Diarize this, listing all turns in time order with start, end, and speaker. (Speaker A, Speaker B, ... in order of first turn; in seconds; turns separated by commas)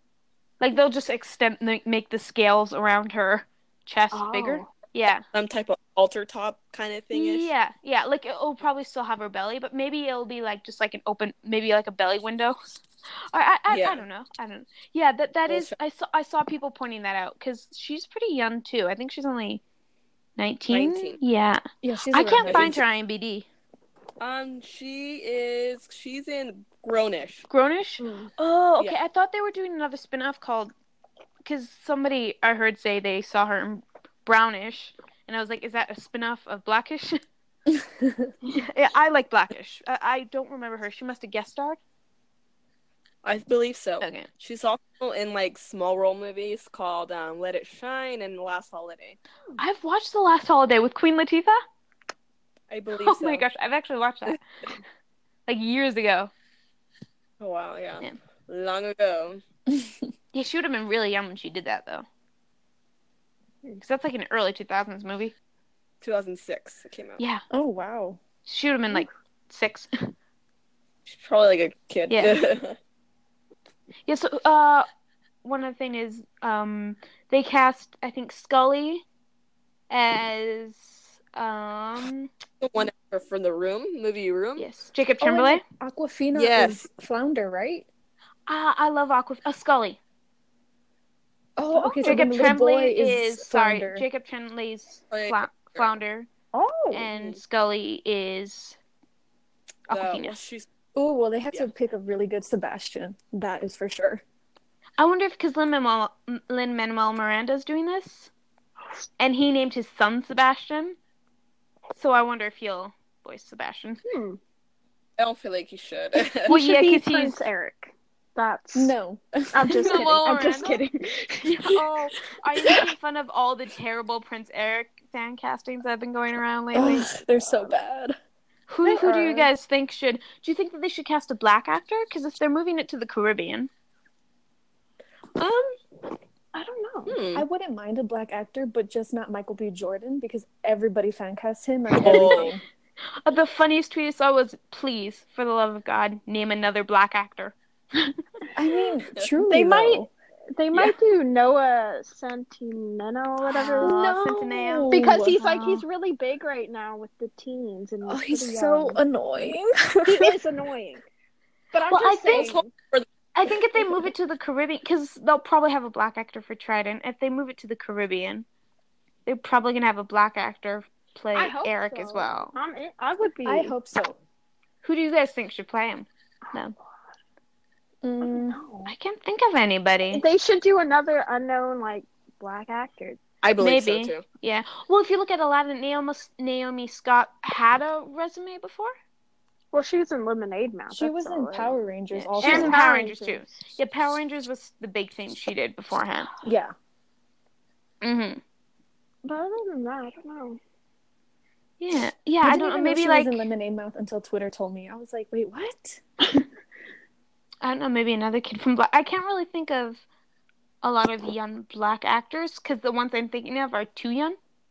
Speaker A: 0.6-5.2, Speaker B: 4.1-4.7, Speaker C: 5.3-7.5, Speaker A: 7.1-12.6, Speaker A: 13.3-19.6, Speaker C: 13.7-14.0, Speaker C: 15.5-15.7, Speaker A: 20.4-23.4, Speaker C: 20.7-21.2, Speaker D: 21.8-22.8, Speaker C: 22.4-22.8, Speaker C: 24.2-27.5, Speaker A: 27.5-30.7, Speaker B: 28.0-28.3, Speaker A: 31.4-37.2, Speaker D: 37.7-38.3, Speaker A: 38.4-41.8, Speaker C: 43.2-49.2, Speaker A: 44.0-44.3, Speaker A: 49.6-51.6, Speaker C: 52.7-53.5, Speaker A: 53.0-54.4, Speaker A: 55.5-56.3, Speaker C: 57.4-59.4, Speaker A: 60.3-62.0, Speaker A: 63.8-65.3, Speaker C: 66.0-67.2, Speaker D: 67.5-68.2, Speaker A: 68.5-69.9, Speaker C: 71.0-72.8, Speaker A: 72.1-72.3, Speaker A: 74.0-74.8, Speaker A: 75.4-79.0, Speaker A: 79.9-82.3, Speaker C: 82.6-84.7, Speaker A: 84.6-85.6, Speaker D: 85.2-87.9, Speaker C: 86.3-86.8, Speaker A: 88.5-90.0, Speaker D: 91.6-94.0, Speaker A: 91.7-96.3, Speaker C: 95.1-95.9, Speaker B: 96.5-97.1, Speaker A: 96.9-98.8, Speaker A: 99.9-100.4, Speaker C: 99.9-100.7, Speaker D: 100.9-104.2, Speaker A: 105.0-108.3, Speaker A: 109.2-111.0, Speaker A: 111.9-114.0, Speaker B: 114.0-114.4, Speaker C: 115.2-116.5, Speaker B: 116.4-118.9, Speaker A: 116.5-117.4, Speaker D: 118.7-120.0, Speaker B: 119.5-121.8, Speaker A: 119.8-120.8, Speaker A: 121.6-127.1, Speaker D: 126.7-128.2, Speaker B: 127.3-127.7, Speaker A: 128.7-133.7, Speaker D: 128.8-129.5, Speaker B: 136.5-137.2, Speaker C: 137.1-137.4, Speaker D: 137.3-142.6, Speaker C: 142.0-142.5, Speaker A: 143.2-147.5, Speaker D: 148.5-150.1, Speaker B: 149.4-154.0, Speaker A: 153.4-155.8, Speaker D: 153.8-155.4, Speaker B: 154.9-159.0, Speaker D: 158.0-160.3, Speaker B: 160.0-161.0, Speaker B: 161.7-162.7, Speaker A: 161.9-162.5, Speaker C: 162.3-163.1, Speaker A: 163.3-168.4, Speaker A: 169.2-172.5, Speaker B: 171.3-173.7, Speaker D: 173.4-174.2, Speaker A: 174.8-176.7, Speaker D: 178.0-178.6, Speaker B: 178.2-178.9, Speaker A: 178.8-180.2, Speaker B: 180.1-183.2, Speaker C: 183.4-184.2, Speaker A: 183.6-188.9, Speaker B: 189.7-191.8, Speaker D: 190.9-192.8, Speaker A: 192.1-196.3, Speaker B: 192.4-193.4, Speaker D: 196.4-196.7, Speaker A: 198.0-198.4, Speaker B: 199.2-200.6, Speaker A: 201.8-203.4, Speaker D: 202.4-206.0, Speaker A: 207.6-210.0, Speaker A: 210.8-214.4